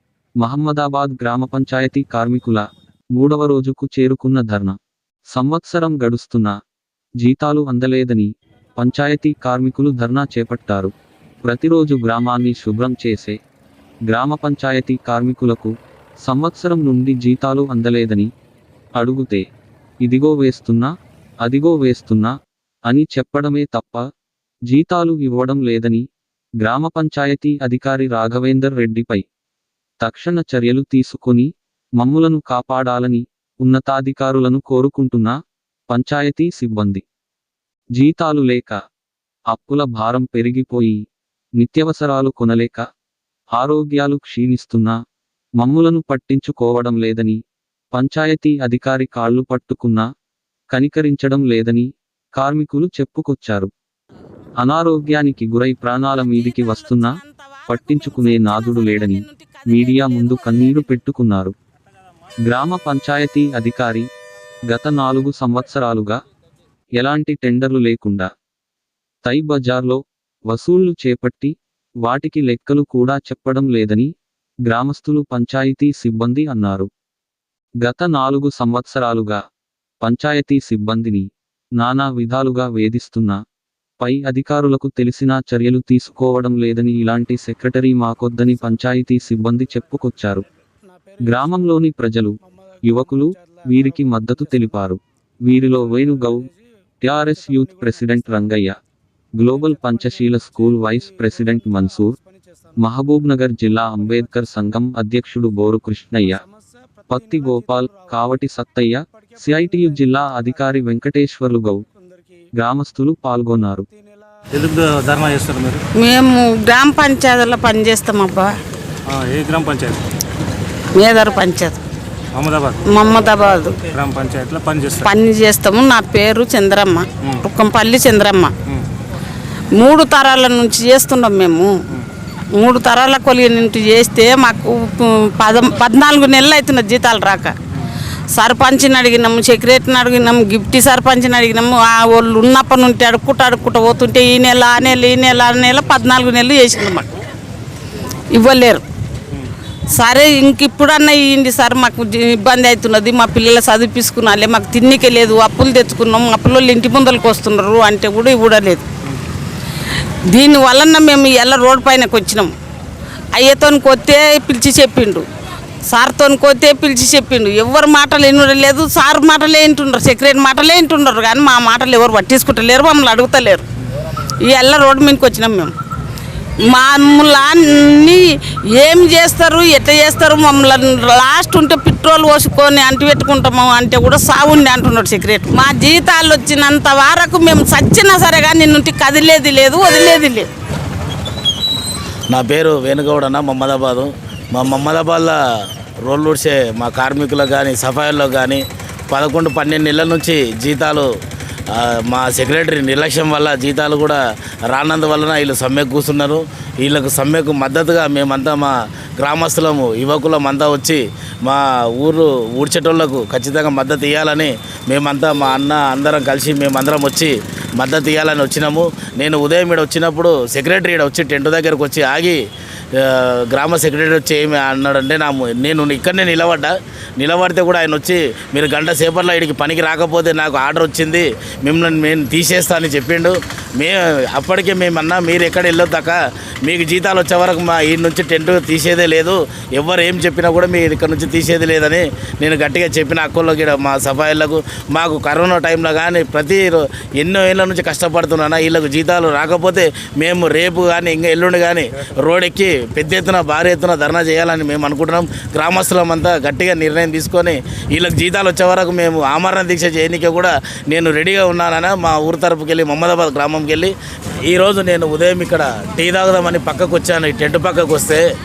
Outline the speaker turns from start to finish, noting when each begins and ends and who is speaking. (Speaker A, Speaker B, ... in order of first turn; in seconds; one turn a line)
Speaker A: 0.4-4.8
Speaker A: 5.3-6.6
Speaker A: 7.2-10.9
Speaker A: 11.4-13.4
Speaker A: 14.1-18.3
Speaker A: 19.0-19.5
Speaker A: 20.0-20.9
Speaker A: 21.4-22.3
Speaker A: 22.9-24.1
Speaker A: 24.7-26.1
Speaker A: 26.6-29.2
Speaker A: 30.0-35.4
Speaker A: 35.9-37.0
Speaker A: 38.0-38.8
Speaker A: 39.5-41.0
Speaker A: 41.6-42.8
Speaker A: 43.6-45.0
Speaker A: 45.6-47.4
Speaker A: 47.9-50.1
Speaker A: 50.7-53.7
Speaker A: 54.6-61.5
Speaker B: 56.1-60.9
Speaker A: 62.5-64.1
Speaker A: 64.7-66.2
Speaker A: 67.0-68.3
Speaker A: 69.2-74.1
Speaker A: 74.7-76.9
Speaker A: 77.8-79.4
Speaker A: 80.0-83.4
Speaker A: 84.0-90.5
Speaker A: 91.2-96.5
Speaker A: 97.0-98.8
Speaker A: 99.4-102.2
Speaker A: 102.8-106.4
Speaker A: 107.1-111.8
Speaker A: 112.5-113.9
Speaker C: 114.5-115.8
Speaker B: 116.0-118.5
Speaker C: 119.1-120.0
Speaker B: 121.0-121.8
Speaker C: 122.4-125.1
Speaker B: 122.9-123.8
Speaker B: 125.0-128.5
Speaker B: 129.8-131.8
Speaker B: 132.6-137.5
Speaker B: 138.3-147.1
Speaker B: 148.3-148.8
Speaker B: 149.9-158.9
Speaker B: 160.3-162.5
Speaker B: 163.3-165.3
Speaker B: 165.9-173.7
Speaker B: 174.4-175.7
Speaker B: 176.7-178.2
Speaker B: 178.7-190.5
Speaker D: 192.3-195.4
Speaker D: 196.0-201.1
Speaker D: 201.7-222.4
Speaker D: 222.9-263.9
Speaker D: 264.5-268.2